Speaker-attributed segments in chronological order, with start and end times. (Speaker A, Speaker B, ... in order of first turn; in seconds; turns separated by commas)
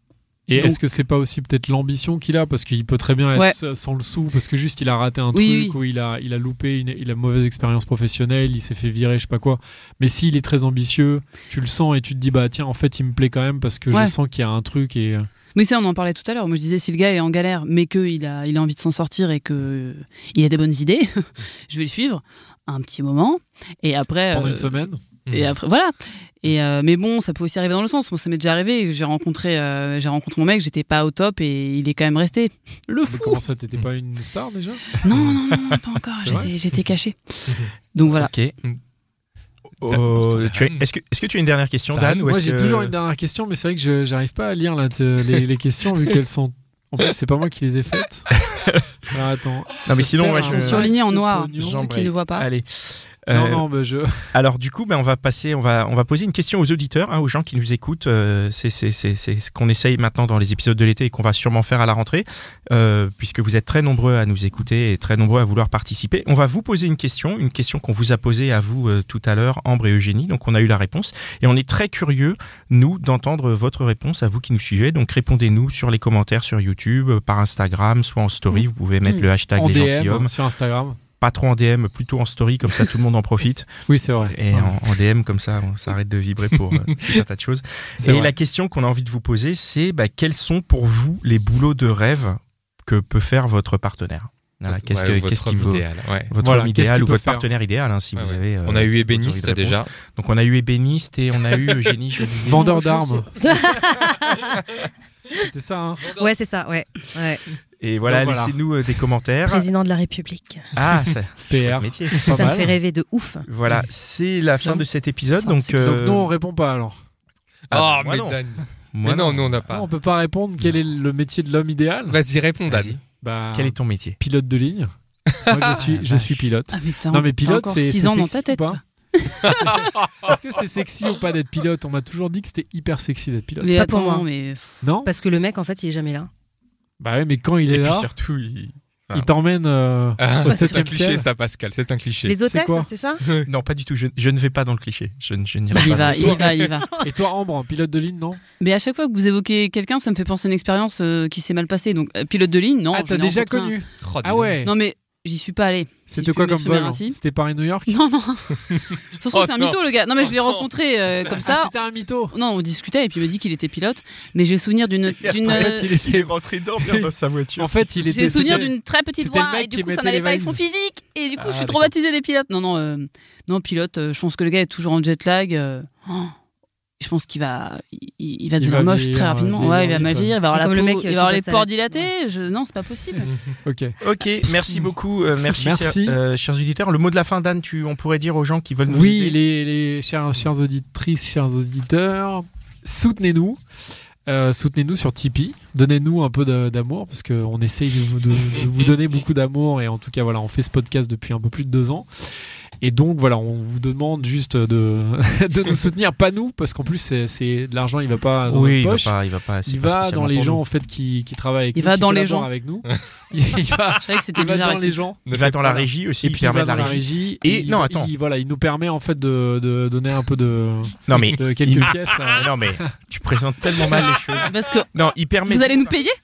Speaker A: 0.5-15.3, Speaker B: 5.3-5.8, Speaker B: 15.5-33.4, Speaker A: 24.3-25.0, Speaker C: 25.3-25.6, Speaker A: 33.1-35.0, Speaker B: 35.0-38.3, Speaker A: 36.2-36.5, Speaker D: 38.1-38.6, Speaker D: 39.8-42.9, Speaker C: 39.9-40.8, Speaker A: 42.2-48.3, Speaker A: 49.1-51.9, Speaker D: 49.9-50.9, Speaker B: 50.4-52.5, Speaker D: 51.6-53.6, Speaker A: 53.3-54.4, Speaker D: 54.3-80.3, Speaker A: 79.6-81.0, Speaker D: 81.2-102.7, Speaker A: 83.9-84.8, Speaker A: 88.0-88.3, Speaker C: 94.7-96.3, Speaker A: 96.4-97.5, Speaker C: 98.2-99.9, Speaker A: 102.5-103.3, Speaker E: 102.5-105.5, Speaker A: 105.5-106.1, Speaker C: 106.0-106.3, Speaker E: 106.1-107.5, Speaker D: 107.8-109.7, Speaker A: 108.1-108.5, Speaker E: 109.5-110.7, Speaker D: 110.7-112.6, Speaker A: 111.5-112.7, Speaker E: 112.3-113.5, Speaker D: 113.5-116.3, Speaker E: 115.3-116.1, Speaker A: 115.8-117.0, Speaker D: 117.7-118.4, Speaker C: 117.7-119.9, Speaker D: 118.9-119.6, Speaker A: 119.7-122.2, Speaker C: 122.1-123.0, Speaker D: 122.7-124.2, Speaker A: 123.2-124.9, Speaker C: 125.3-125.8, Speaker A: 125.5-128.8, Speaker D: 125.8-126.4, Speaker B: 126.7-129.5, Speaker C: 129.4-130.3, Speaker A: 129.6-133.8, Speaker B: 133.6-134.8, Speaker E: 133.8-134.3, Speaker A: 134.8-135.1, Speaker E: 135.1-136.3, Speaker A: 137.0-138.1, Speaker D: 137.7-139.3, Speaker A: 139.1-141.3, Speaker C: 140.2-142.4, Speaker E: 140.4-140.8, Speaker E: 142.2-143.2, Speaker A: 142.4-142.9, Speaker D: 143.4-146.4, Speaker B: 145.8-146.9, Speaker A: 145.8-146.4, Speaker C: 145.9-146.4, Speaker A: 147.0-148.4, Speaker B: 148.6-153.8, Speaker A: 152.9-154.7, Speaker C: 154.0-154.5, Speaker B: 154.6-157.2, Speaker A: 156.1-158.0, Speaker B: 157.9-161.7, Speaker C: 158.7-160.7, Speaker A: 161.4-162.3, Speaker B: 162.3-165.9, Speaker D: 165.2-168.1, Speaker A: 165.4-170.6, Speaker B: 168.0-176.3, Speaker D: 171.4-171.9, Speaker B: 177.0-183.3, Speaker A: 178.6-180.4, Speaker E: 180.5-182.0, Speaker C: 183.2-183.6, Speaker A: 183.7-184.0, Speaker D: 184.0-189.4, Speaker A: 185.6-186.2, Speaker A: 188.9-193.6, Speaker A: 194.3-209.1, Speaker D: 208.5-210.6, Speaker A: 209.7-222.9, Speaker B: 211.8-212.5, Speaker B: 214.0-215.0, Speaker C: 215.3-215.8, Speaker D: 215.3-218.1, Speaker D: 221.1-226.0, Speaker C: 221.9-222.3, Speaker B: 224.4-224.9, Speaker B: 225.4-226.2